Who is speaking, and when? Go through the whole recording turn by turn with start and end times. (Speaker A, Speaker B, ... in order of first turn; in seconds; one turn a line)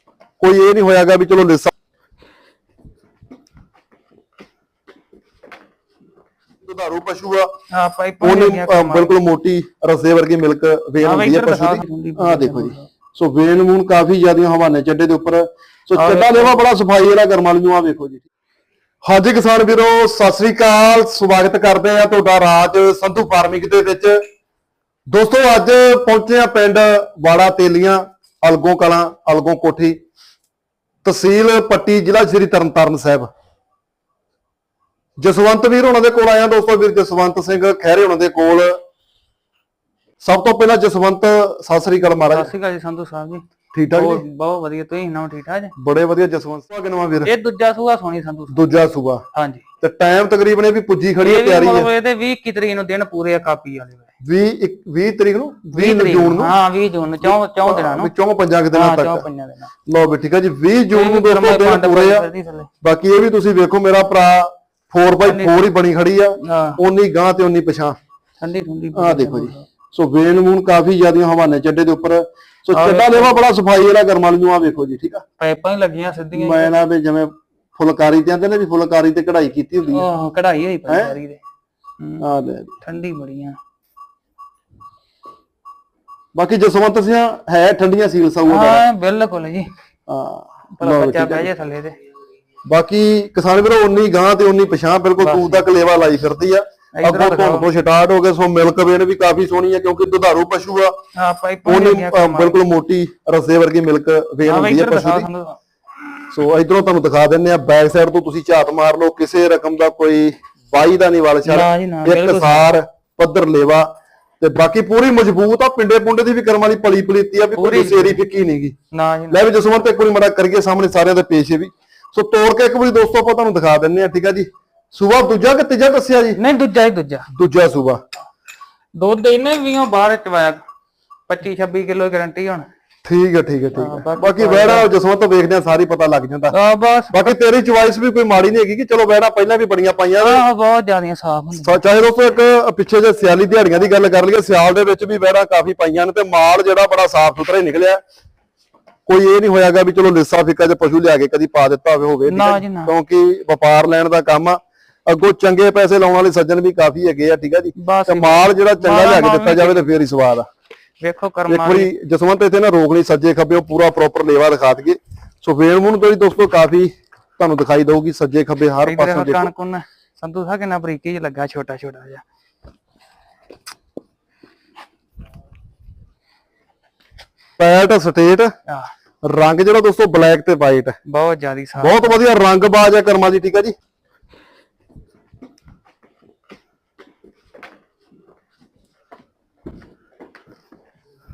Speaker A: 0.4-1.7
Speaker A: 6.6-7.5
Speaker B: 7.7-9.1
Speaker A: 8.2-18.2
Speaker B: 11.0-12.9
Speaker B: 15.9-16.6
Speaker A: 19.0-24.2
Speaker A: 25.1-30.0
Speaker A: 31.0-33.3
Speaker A: 35.2-38.8
Speaker A: 40.2-42.5
Speaker B: 42.3-45.7
Speaker A: 43.7-44.2
Speaker A: 45.8-47.3
Speaker B: 47.2-48.6
Speaker A: 48.5-49.2
Speaker B: 49.3-49.6
Speaker A: 49.8-51.9
Speaker B: 51.2-54.1
Speaker A: 54.2-56.5
Speaker B: 55.7-58.1
Speaker A: 57.2-59.2
Speaker B: 58.7-59.7
Speaker A: 59.9-62.3
Speaker B: 60.9-62.7
Speaker A: 62.8-68.0
Speaker B: 65.2-65.7
Speaker B: 66.4-66.8
Speaker B: 68.4-69.7
Speaker A: 68.9-75.2
Speaker B: 72.7-73.4
Speaker B: 75.4-76.7
Speaker A: 76.3-80.0
Speaker B: 79.9-81.4
Speaker A: 80.9-81.2
Speaker B: 82.0-82.2
Speaker A: 82.2-82.8
Speaker B: 82.8-83.6
Speaker A: 86.3-88.8
Speaker B: 88.5-89.7
Speaker A: 90.1-91.5
Speaker B: 90.8-92.0
Speaker A: 92.7-101.0
Speaker B: 95.2-95.7
Speaker B: 96.9-97.7
Speaker B: 101.1-102.6
Speaker A: 101.7-105.3
Speaker B: 104.4-105.6
Speaker A: 106.3-118.8
Speaker B: 111.4-112.7
Speaker B: 117.5-118.2
Speaker B: 118.9-119.4
Speaker A: 119.3-126.4
Speaker B: 126.3-127.3
Speaker A: 127.3-128.0
Speaker B: 128.9-130.6
Speaker B: 131.3-132.7
Speaker A: 133.0-136.5
Speaker B: 133.7-134.9
Speaker B: 136.5-137.3
Speaker A: 137.1-140.4
Speaker B: 140.2-141.8
Speaker A: 141.5-148.0
Speaker A: 149.1-160.5
Speaker B: 152.2-152.9
Speaker B: 157.8-159.8
Speaker B: 161.0-161.9
Speaker A: 161.5-169.5
Speaker B: 168.8-172.2
Speaker A: 177.6-178.5
Speaker A: 179.2-181.0
Speaker B: 181.1-182.1
Speaker A: 181.8-183.7